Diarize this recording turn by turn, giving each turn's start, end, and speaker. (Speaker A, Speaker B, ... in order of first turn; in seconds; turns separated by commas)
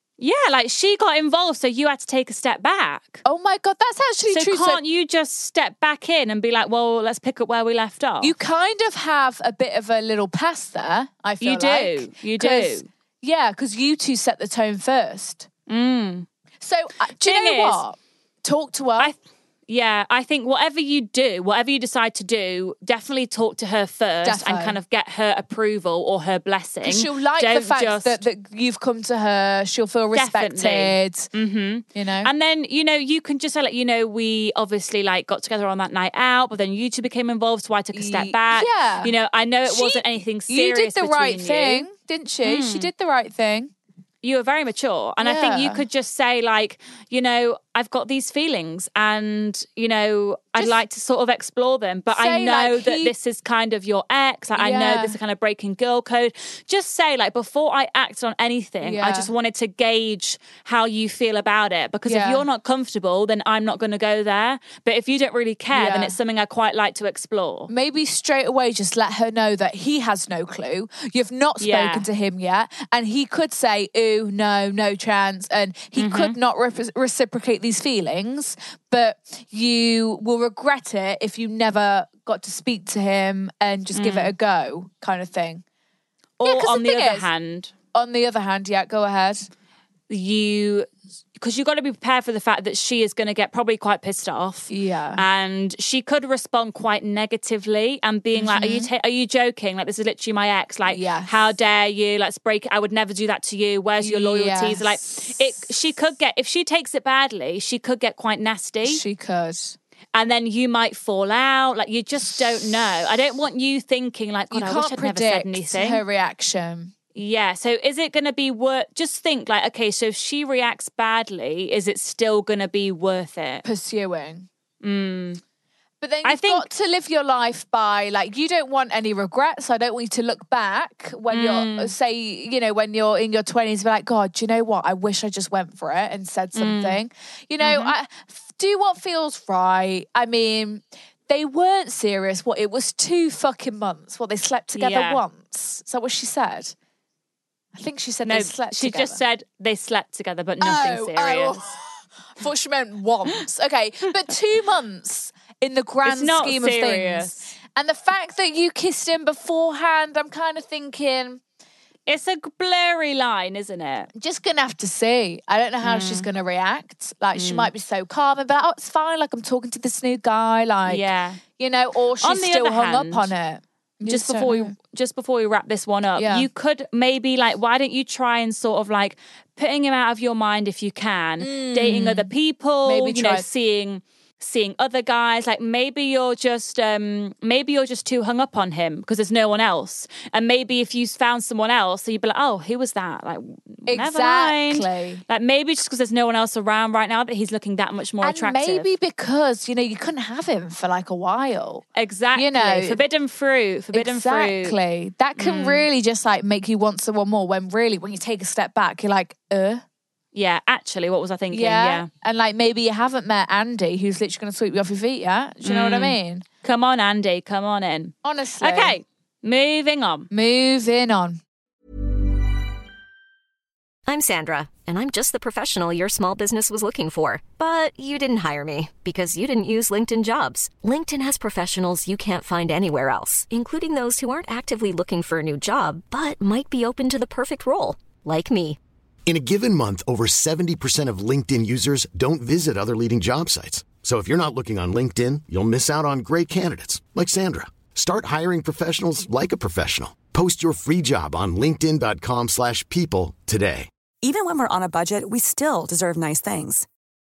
Speaker A: 0.2-3.2, Speaker B: 3.2-4.8, Speaker A: 4.3-8.3, Speaker B: 8.2-15.5, Speaker A: 11.4-12.9, Speaker A: 15.7-16.3, Speaker B: 16.6-19.1, Speaker A: 17.2-17.8, Speaker A: 19.7-28.2, Speaker B: 24.2-24.8, Speaker B: 26.8-31.3, Speaker A: 30.1-41.9, Speaker B: 31.9-32.3, Speaker B: 37.9-39.1, Speaker B: 39.6-43.7, Speaker A: 42.4-42.9, Speaker A: 44.2-67.7, Speaker B: 45.2-45.8, Speaker B: 52.1-53.1, Speaker B: 54.6-55.2, Speaker B: 58.8-59.3, Speaker B: 62.1-62.4, Speaker B: 65.7-66.2, Speaker B: 67.7-85.6, Speaker A: 71.6-72.1, Speaker A: 76.0-76.4, Speaker A: 83.9-84.3, Speaker A: 86.4-87.7, Speaker B: 86.4-87.3, Speaker B: 87.9-89.5, Speaker A: 90.1-109.0, Speaker B: 94.7-95.2, Speaker B: 98.3-98.9, Speaker B: 100.9-101.3, Speaker B: 104.0-105.5, Speaker B: 108.8-109.8, Speaker A: 110.1-116.0, Speaker B: 114.5-116.9, Speaker A: 117.2-123.7, Speaker B: 123.6-124.5, Speaker A: 124.8-125.4, Speaker B: 126.0-146.8, Speaker A: 126.2-126.7, Speaker A: 131.3-131.9, Speaker A: 136.6-137.0, Speaker A: 137.6-137.9, Speaker A: 144.8-145.2, Speaker B: 147.8-149.2, Speaker A: 148.2-151.7, Speaker B: 150.6-151.8, Speaker B: 152.4-161.4, Speaker A: 156.1-157.5, Speaker A: 162.1-164.1, Speaker B: 164.2-171.1, Speaker A: 165.8-166.3, Speaker A: 167.3-167.7, Speaker A: 170.9-171.4, Speaker B: 171.6-174.8, Speaker A: 172.2-173.3, Speaker A: 174.1-198.9, Speaker B: 176.2-176.5, Speaker B: 181.4-182.3, Speaker B: 182.8-183.5, Speaker B: 193.9-195.2, Speaker B: 198.2-203.0, Speaker A: 202.0-204.8, Speaker B: 203.9-209.8, Speaker A: 205.4-205.9, Speaker A: 210.3-212.1, Speaker B: 211.5-216.4, Speaker A: 215.6-220.3, Speaker B: 218.2-219.0, Speaker B: 220.3-221.4, Speaker C: 224.1-238.8, Speaker D: 239.3-253.9, Speaker E: 254.2-256.9